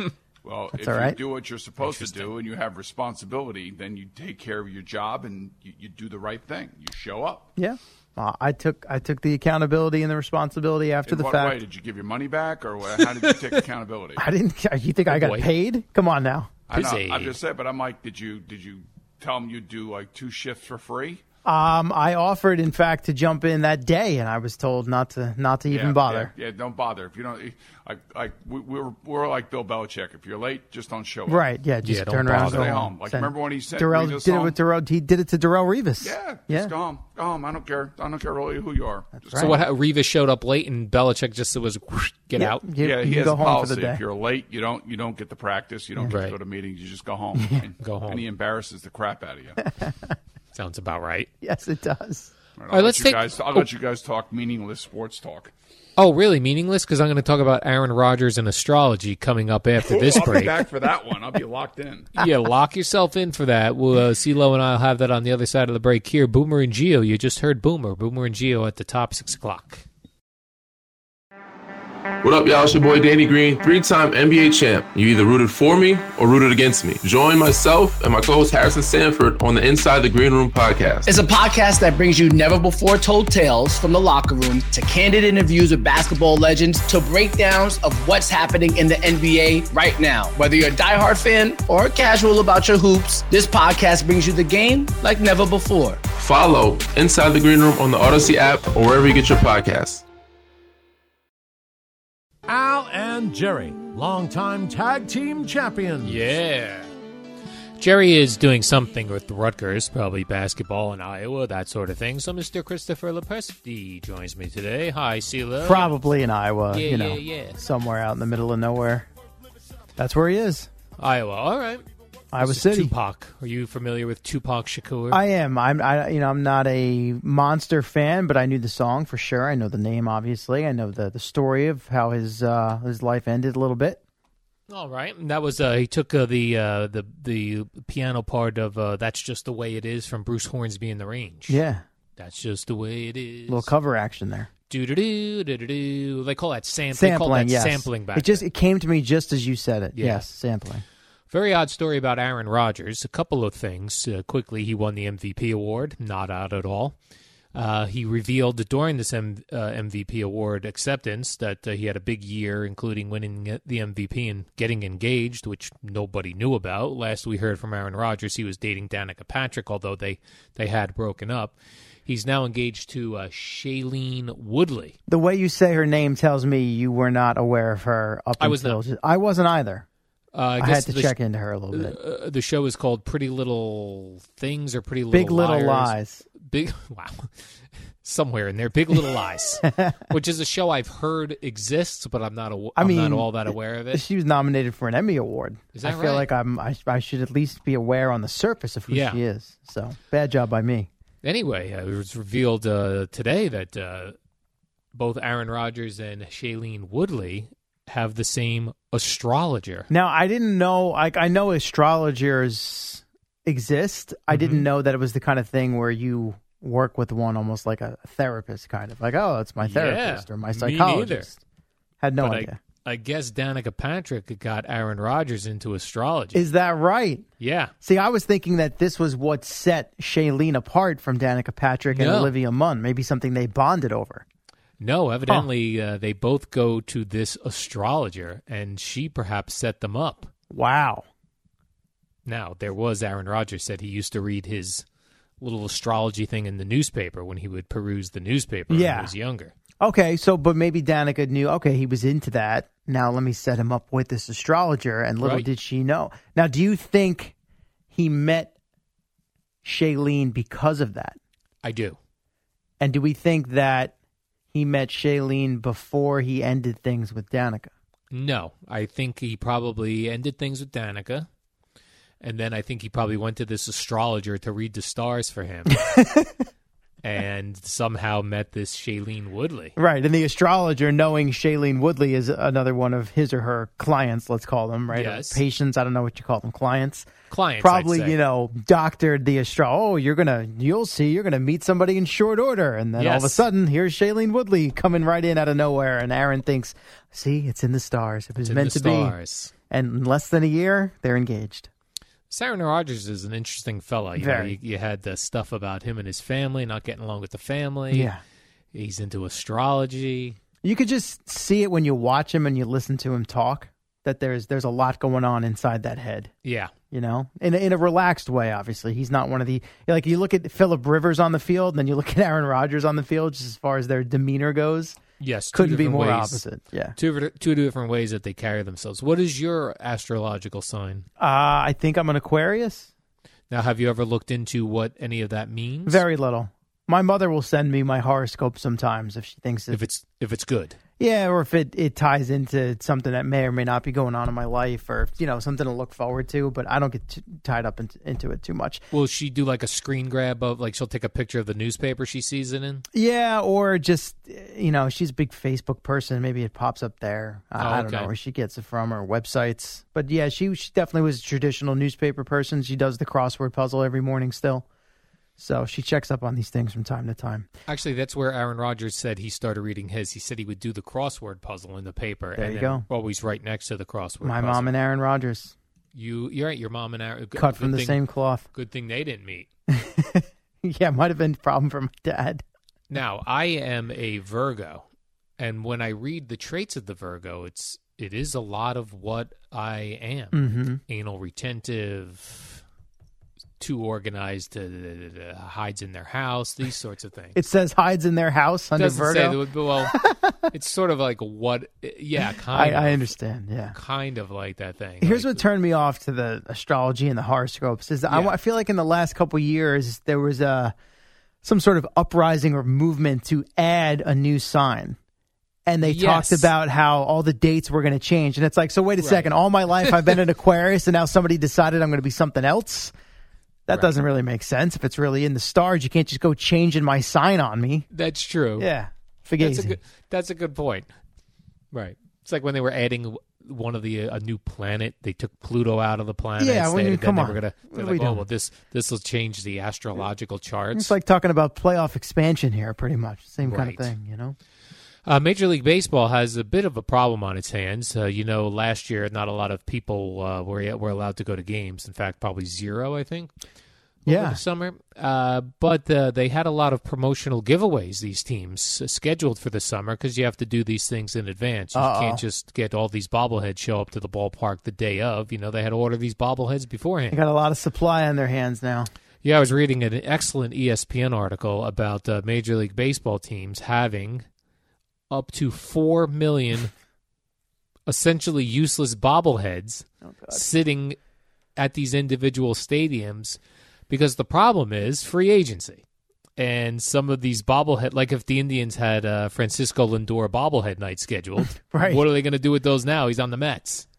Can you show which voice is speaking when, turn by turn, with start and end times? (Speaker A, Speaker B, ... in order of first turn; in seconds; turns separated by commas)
Speaker A: 0.4-7.5, Speaker B: 0.7-1.2, Speaker C: 1.8-2.3, Speaker B: 7.6-11.6, Speaker A: 11.1-14.3, Speaker B: 14.2-16.6, Speaker C: 15.1-15.5, Speaker A: 16.7-21.2, Speaker C: 16.7-17.4, Speaker B: 21.4-26.3, Speaker A: 25.7-31.5, Speaker B: 31.3-36.7, Speaker C: 31.8-32.8, Speaker A: 32.3-34.6, Speaker A: 36.0-39.6, Speaker B: 39.1-39.6, Speaker C: 39.4-42.6, Speaker B: 42.4-44.0, Speaker A: 42.8-49.6, Speaker C: 46.1-46.4, Speaker B: 47.4-47.6, Speaker C: 47.8-48.2, Speaker B: 49.6-50.1, Speaker C: 50.5-51.3, Speaker B: 51.4-52.3, Speaker A: 52.6-55.5, Speaker C: 52.7-53.7, Speaker C: 56.0-60.6, Speaker A: 59.8-62.1, Speaker C: 62.2-69.8, Speaker D: 72.2-81.1, Speaker E: 81.1-96.0, Speaker D: 96.2-100.0, Speaker F: 102.5-106.2, Speaker C: 106.0-106.9, Speaker C: 107.8-116.0, Speaker B: 115.6-119.1, Speaker C: 116.7-117.6, Speaker B: 120.0-120.7, Speaker C: 121.0-121.8, Speaker B: 122.3-122.9, Speaker C: 122.4-125.2, Speaker B: 125.1-134.0, Speaker C: 134.7-141.6, Speaker B: 141.5-141.8, Speaker C: 142.2-143.7, Speaker B: 143.5-144.5, Speaker C: 144.7-148.4, Speaker B: 146.9-150.8, Speaker C: 150.0-150.3, Speaker C: 151.3-157.0, Speaker C: 157.6-171.6, Speaker C: 172.1-174.9, Speaker B: 175.1-179.8, Speaker C: 178.4-178.8, Speaker C: 180.3-181.2, Speaker B: 180.6-182.0, Speaker C: 181.7-187.3, Speaker B: 185.1-186.2, Speaker C: 188.0-194.0, Speaker B: 189.6-190.0, Speaker B: 192.8-200.9, Speaker C: 195.7-196.3, Speaker C: 198.9-199.2, Speaker C: 201.2-204.2, Speaker C: 204.9-209.9, Speaker B: 209.9-221.4, Speaker C: 214.3-214.7, Speaker C: 219.6-221.3, Speaker B: 222.0-222.6, Speaker C: 222.2-226.4, Speaker B: 226.3-227.2, Speaker C: 227.4-227.7, Speaker B: 227.8-234.2, Speaker C: 231.9-232.3, Speaker C: 234.8-240.3, Speaker B: 240.5-241.1, Speaker C: 242.3-244.8, Speaker C: 245.4-249.5, Speaker B: 248.7-249.1, Speaker B: 249.8-257.3, Speaker C: 255.2-255.5, Speaker B: 257.9-258.5, Speaker B: 259.6-261.2, Speaker C: 261.6-262.0, Speaker B: 262.8-263.9, Speaker B: 264.5-267.7, Speaker C: 268.1-271.3, Speaker C: 272.2-275.8, Speaker B: 275.7-276.4, Speaker C: 277.0-279.8, Speaker B: 279.8-287.1, Speaker C: 284.9-285.4, Speaker C: 287.3-288.2, Speaker B: 287.6-299.2, Speaker C: 293.0-293.4, Speaker C: 298.4-299.5, Speaker B: 299.7-301.7, Speaker C: 302.3-308.1, Speaker B: 304.2-304.6, Speaker B: 307.9-308.2, Speaker C: 308.7-310.4, Speaker B: 310.6-316.3, Speaker C: 316.4-316.7, Speaker B: 316.9-325.0, Speaker C: 325.2-326.4, Speaker B: 325.5-326.9, Speaker C: 327.0-331.1, Speaker B: 331.2-332.9, Speaker C: 333.5-336.0, Speaker B: 335.9-339.9, Speaker C: 339.7-340.8, Speaker B: 341.0-348.8, Speaker C: 348.9-352.9, Speaker B: 352.9-364.6, Speaker C: 357.6-358.1, Speaker B: 365.4-367.5, Speaker C: 367.7-374.8, Speaker B: 372.4-372.9, Speaker B: 374.2-375.5, Speaker C: 375.9-378.0, Speaker B: 377.4-378.4, Speaker C: 378.5-379.5, Speaker B: 379.7-382.4, Speaker C: 382.9-384.9, Speaker C: 385.4-392.6, Speaker B: 390.3-390.8, Speaker C: 393.6-397.4, Speaker B: 397.4-400.4, Speaker C: 398.8-400.0, Speaker C: 400.5-403.0, Speaker B: 402.5-403.8, Speaker C: 403.7-405.5, Speaker B: 405.0-410.7, Speaker C: 408.1-408.4, Speaker B: 411.4-415.0, Speaker B: 415.7-422.9, Speaker C: 415.8-416.5, Speaker C: 419.0-419.3, Speaker C: 419.8-420.2, Speaker B: 423.7-427.9, Speaker C: 423.7-424.0, Speaker C: 427.9-428.7, Speaker B: 428.6-429.8, Speaker C: 429.4-430.9, Speaker C: 431.7-440.9, Speaker B: 436.4-438.2, Speaker B: 440.7-444.4, Speaker C: 443.4-443.9, Speaker C: 445.1-453.3, Speaker B: 454.1-454.4, Speaker C: 454.1-467.2, Speaker B: 461.7-462.2, Speaker B: 467.1-468.9, Speaker C: 469.2-474.2, Speaker C: 475.1-476.7, Speaker C: 477.9-481.0, Speaker B: 480.0-480.4, Speaker C: 481.6-483.4, Speaker C: 483.9-485.8, Speaker C: 486.4-493.9, Speaker B: 491.5-492.0